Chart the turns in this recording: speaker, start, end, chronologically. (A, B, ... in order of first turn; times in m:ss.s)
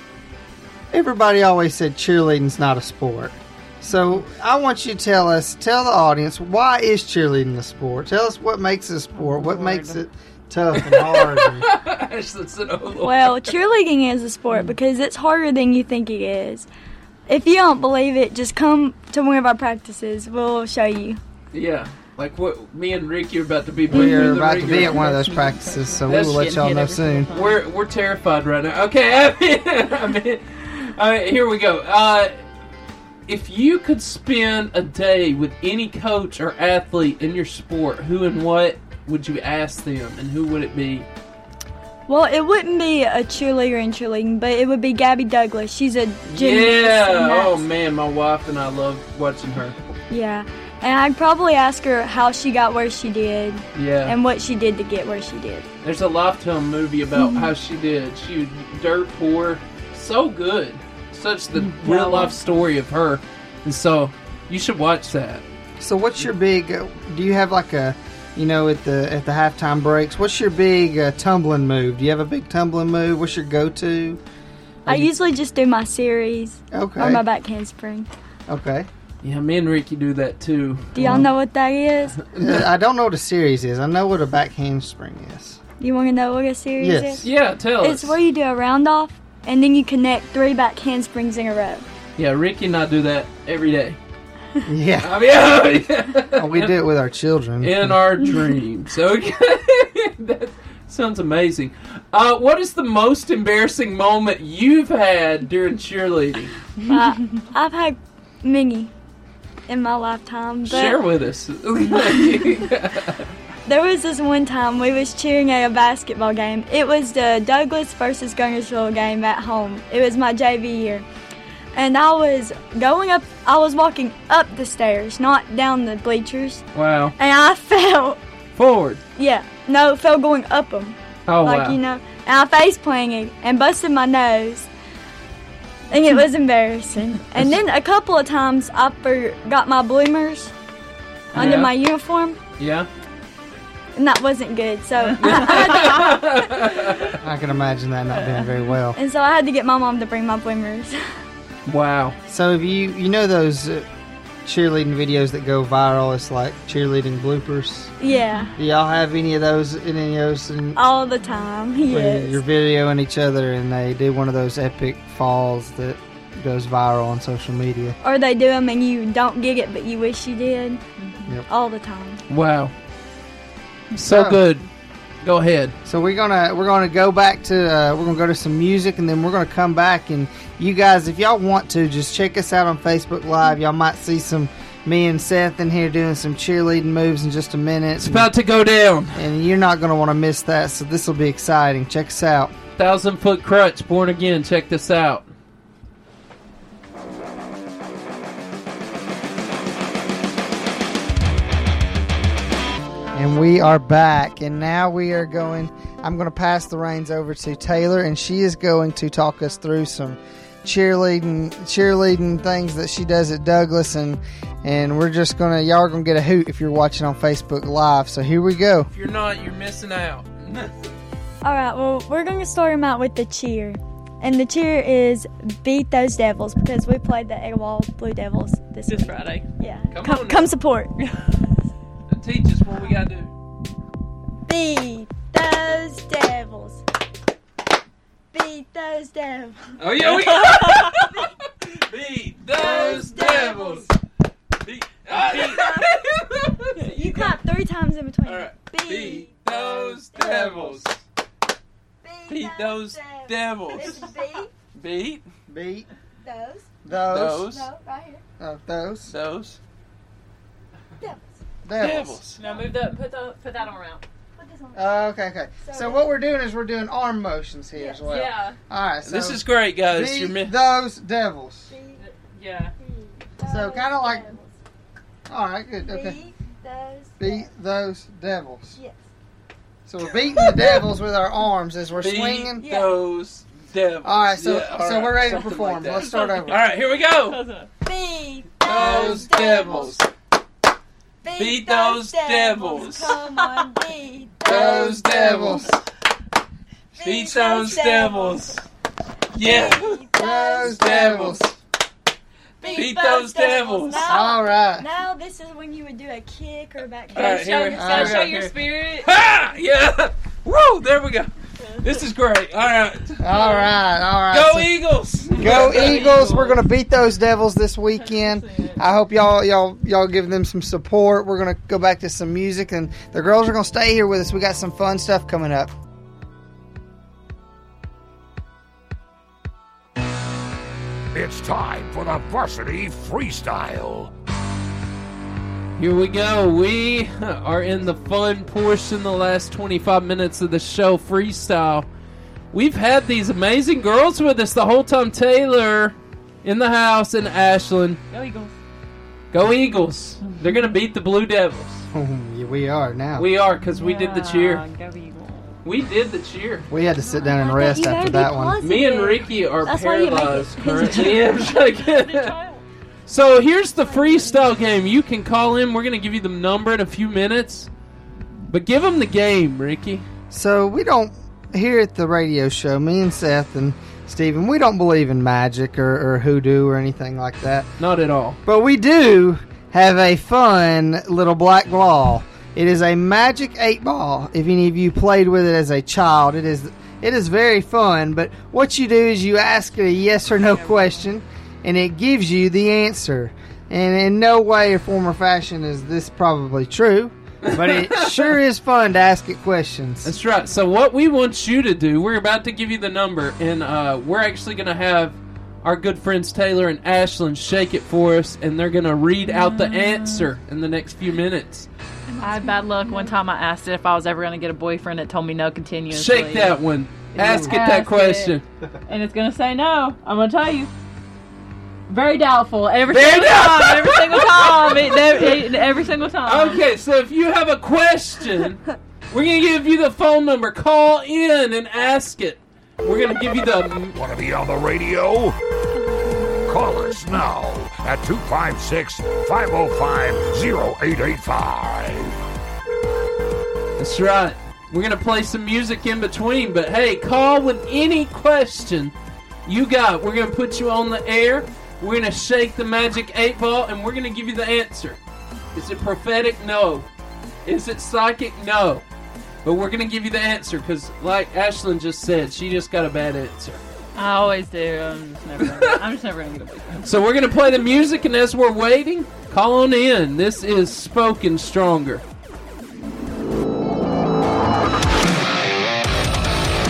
0:00.9-0:11.7 A
0:09.1-0:10.0 B
0:10.7-0:13.5 C
0:13.0-0:16.7 D
0:17.3-0:21.2 D
0:21.5-0:25.2 C
0:23.9-0:27.3 A
0:23.9-0:27.6 B
0:26.1-0:26.5 C
0:27.3-0:32.3 C
0:33.3-0:41.1 C
0:42.1-0:47.6 D
0:46.3-0:49.8 C
0:50.1-0:55.7 D
0:53.8-0:54.2 C
0:55.8-1:05.4 C
0:57.1-0:57.5 D
1:01.9-1:02.3 D
1:05.8-1:14.2 A
1:14.9-1:18.1 D
1:16.7-1:17.2 A
1:18.5-1:18.9 A
1:19.2-1:21.2 C
1:20.9-1:22.2 D
1:21.0-1:21.3 A
1:22.4-1:25.6 A
1:25.8-1:27.3 D
1:26.8-1:27.3 A
1:27.2-1:28.2 C
1:27.8-1:31.8 D
1:32.2-1:34.0 C
1:34.7-1:35.2 A
1:35.0-1:36.8 C
1:36.3-1:38.0 A
1:37.6-1:46.6 C
1:46.9-1:48.9 D
1:49.7-1:51.0 D
1:50.6-1:53.3 C
1:52.0-1:52.4 D
1:53.7-2:01.0 D
2:01.7-2:06.6 D
2:06.8-2:07.2 C
2:07.2-2:08.2 D
2:08.6-2:09.0 C
2:09.2-2:14.7 D
2:11.3-2:11.8 C
2:15.9-2:20.5 D
2:21.3-2:21.7 C
2:21.3-2:22.4 D
2:22.6-2:22.9 C
2:24.0-2:26.3 D
2:25.1-2:26.0 B
2:25.2-2:27.2 C
2:27.2-2:29.0 A
2:28.9-2:31.0 D
2:31.7-2:32.2 C
2:32.3-2:33.9 A
2:34.4-2:38.0 A
2:38.0-2:38.5 D
2:38.6-2:40.8 A
2:40.8-2:42.4 D
2:41.8-2:48.0 A
2:48.0-2:50.8 D
2:51.0-2:51.3 B
2:51.5-2:52.2 D
2:52.3-2:52.7 C
2:53.9-2:54.7 C
2:54.1-2:54.4 A
2:55.2-2:55.8 C
2:55.8-3:08.3 A
3:08.0-3:09.2 C
3:09.2-3:12.5 A
3:12.8-3:15.3 C
3:23.1-3:38.9 A
3:38.9-3:40.7 C
3:41.4-3:50.9 D
3:48.9-3:49.5 B
3:49.9-3:50.5 C
3:52.1-3:53.3 C
3:54.5-3:56.8 D
3:58.3-3:59.6 D
3:59.8-4:03.9 C
4:02.5-4:03.9 D
4:04.6-4:07.4 C
4:05.1-4:06.1 D
4:06.7-4:10.9 D
4:08.2-4:11.0 C
4:12.0-4:14.5 D
4:12.3-4:14.1 C
4:14.8-4:15.3 C
4:15.5-4:15.9 A
4:16.2-4:18.2 D
4:16.8-4:17.5 A
4:17.1-4:17.7 C
4:18.4-4:19.1 A
4:19.1-4:19.6 C
4:21.6-4:22.2 A
4:21.8-4:22.4 C
4:22.4-4:24.0 B
4:22.4-4:22.7 D
4:24.4-4:25.1 D
4:24.8-4:31.7 A
4:25.6-4:26.1 D
4:27.8-4:28.1 D
4:28.1-4:28.6 B
4:29.0-4:30.5 C
4:31.7-4:32.0 D
4:32.0-4:32.7 B
4:32.8-4:34.5 D
4:33.4-4:34.4 A
4:35.3-4:36.2 A
4:35.8-4:37.5 D
4:37.2-4:38.8 A
4:39.9-4:42.6 A
4:40.2-4:40.9 D
4:42.0-4:47.4 C
4:42.6-4:43.0 D
4:44.0-4:46.6 A
4:45.9-4:46.4 D
4:47.3-4:47.7 B
4:47.8-4:50.0 D
4:48.6-4:50.1 C
4:48.8-4:49.2 A
4:51.2-4:55.4 D
4:51.4-4:53.2 C
4:53.4-4:53.7 B
4:54.4-4:55.8 A
4:54.4-4:55.8 C
4:56.9-4:58.6 D
4:57.0-4:58.6 C
4:59.3-5:01.5 C
4:59.4-5:01.3 D
5:00.2-5:01.5 A
5:02.6-5:08.2 D
5:02.6-5:04.1 C
5:04.0-5:04.9 A
5:07.1-5:09.1 B
5:07.1-5:13.6 C
5:07.7-5:08.5 A
5:13.2-5:14.7 A
5:14.3-5:16.6 C
5:15.3-5:25.7 A
5:31.1-5:34.1 E
5:35.8-5:41.9 C
5:42.5-5:48.0 C
5:48.1-5:48.6 B
5:49.3-5:51.9 C
5:50.2-5:50.7 B
5:51.9-5:53.3 A
5:53.2-5:54.6 C
5:53.6-5:55.6 B
5:55.6-5:56.7 C
5:56.7-5:58.6 A
5:57.0-6:01.6 D
5:58.6-6:02.4 C
6:00.7-6:01.1 B
6:01.8-6:02.6 B
6:03.1-6:07.7 C
6:03.9-6:04.5 D
6:08.5-6:10.1 C
6:10.3-6:17.7 A
6:17.8-6:18.4 C
6:18.4-6:40.1 A
6:30.4-6:31.0 B
6:37.4-6:38.4 C
6:40.0-6:51.7 C
6:49.2-6:50.3 B
6:52.1-6:53.2 D
6:52.2-6:56.6 B
6:55.9-6:58.4 C
6:57.2-7:00.7 B
7:01.9-7:06.6 B
7:02.9-7:05.4 C
7:06.2-7:14.0 C
7:13.9-7:15.4 E
7:15.8-7:16.6 D
7:16.5-7:22.2 E
7:23.8-7:35.0 C
7:35.6-7:36.9 C
7:37.4-7:38.8 C
7:39.4-7:43.6 C
7:44.0-7:46.9 B
7:45.4-7:45.7 C
7:46.8-7:52.0 C